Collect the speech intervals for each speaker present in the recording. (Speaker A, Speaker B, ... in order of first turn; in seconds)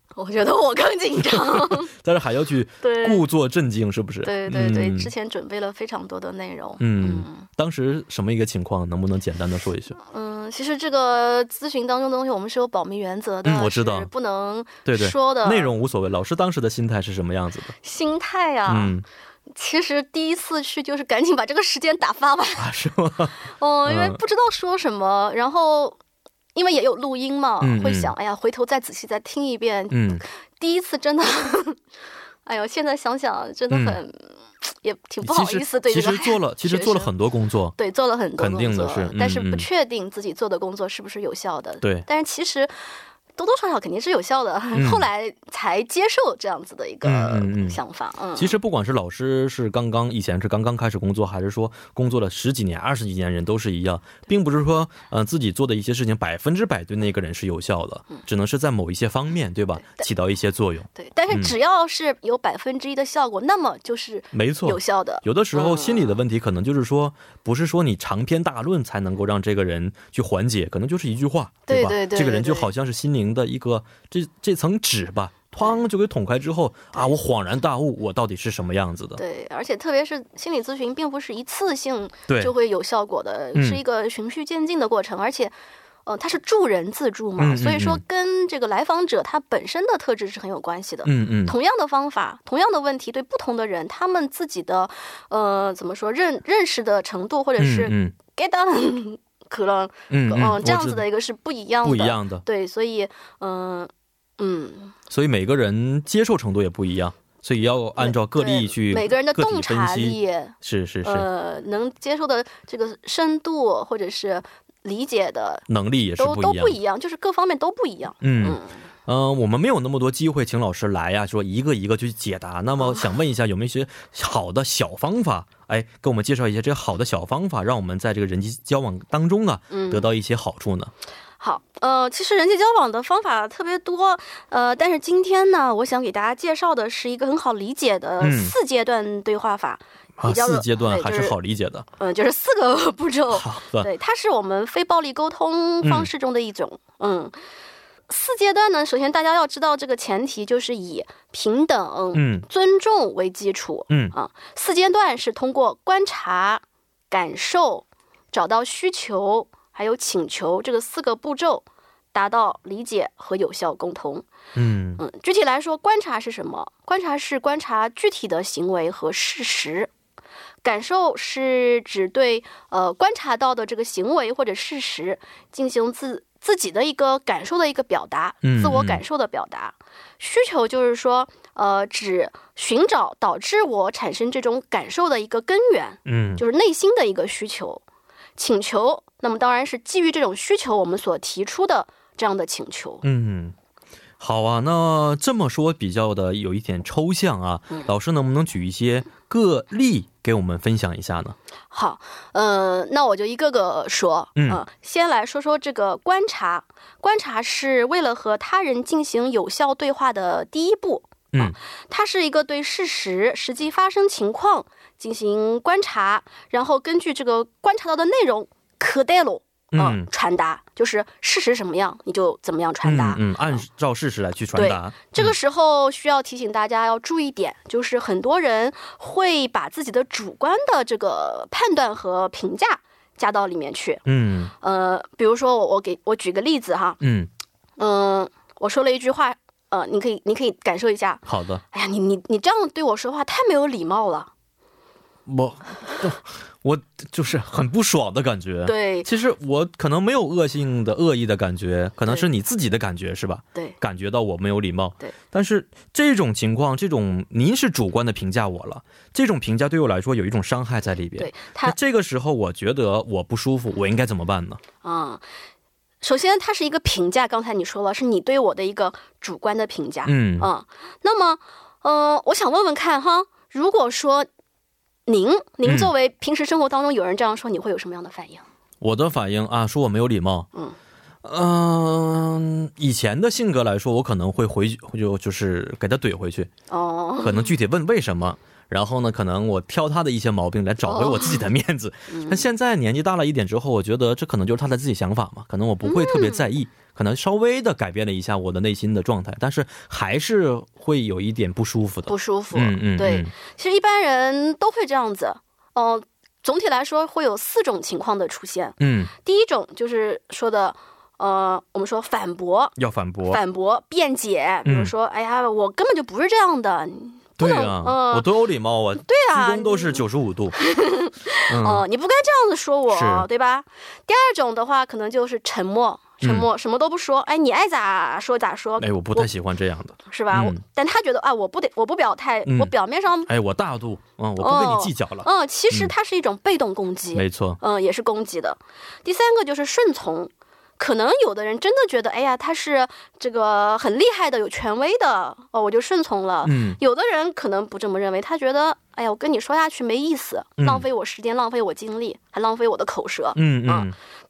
Speaker A: 0.1-1.9, 2.8-3.2, 4.2-7.5, 10.0-15.7, 17.8-18.9, 19.5-22.7, 23.4-26.0, 26.5-31.8, 32.5-37.1, 37.8-42.7, 43.4-48.5, 60.9-66.2, 71.7-72.7, 79.2-85.5, 86.0-105.0, 108.0-115.7, 116.2-118.8, 129.7-130.1, 131.4-141.3, 142.0-147.3, 148.1-164.2, 165.0-169.9, 170.6-187.8, 188.4-193.0, 201.7-223.6, 224.5-234.0, 234.6-237.0, 237.8-244.3, 248.7-249.1, 261.2-261.8, 264.8-265.2, 266.0-274.3, 275.1-278.4, 286.7-287.5, 290.8-291.4, 292.1-292.5, 295.8-296.5, 302.1-312.8, 313.3-318.3, 319.0-320.0, 320.6-329.3, 330.1-333.3, 334.4-353.9
Speaker B: 1.2-5.1, 6.8-10.0, 13.4-14.1, 14.8-17.7, 18.7-19.0, 22.6-24.2, 27.6-28.1, 29.9-30.2, 33.7-34.0, 35.2-37.7, 38.4-39.7, 41.8-42.1, 44.7-45.0, 47.0-47.8, 48.4-61.5, 64.3-79.2, 83.5-83.8, 87.4-88.0, 91.0-91.5, 97.6-98.1, 100.1-101.0, 101.8-102.4, 105.1-111.3, 115.7-116.8, 118.2-130.9, 138.2-138.5, 140.2-141.8, 143.3-143.9, 145.8-146.1, 152.1-152.4, 153.9-154.1, 164.5-165.0, 178.4-179.0, 186.1-186.4, 193.0-193.5, 194.2-201.3, 204.3-204.6, 219.7-220.1, 222.8-225.3, 234.1-234.5, 237.0-237.3, 241.3-241.6, 245.2-264.6, 270.0-270.5, 275.6-275.9, 278.8-280.5, 281.2-286.5, 287.2-303.3, 308.8-309.1, 312.8-313.4, 314.6-314.9, 317.4-320.6, 321.5-321.8, 322.9-323.3, 326.2-326.5, 328.8-330.6, 332.4-332.7, 333.3-335.9, 337.1-337.6, 346.4-346.8, 350.6-350.8, 353.4-353.9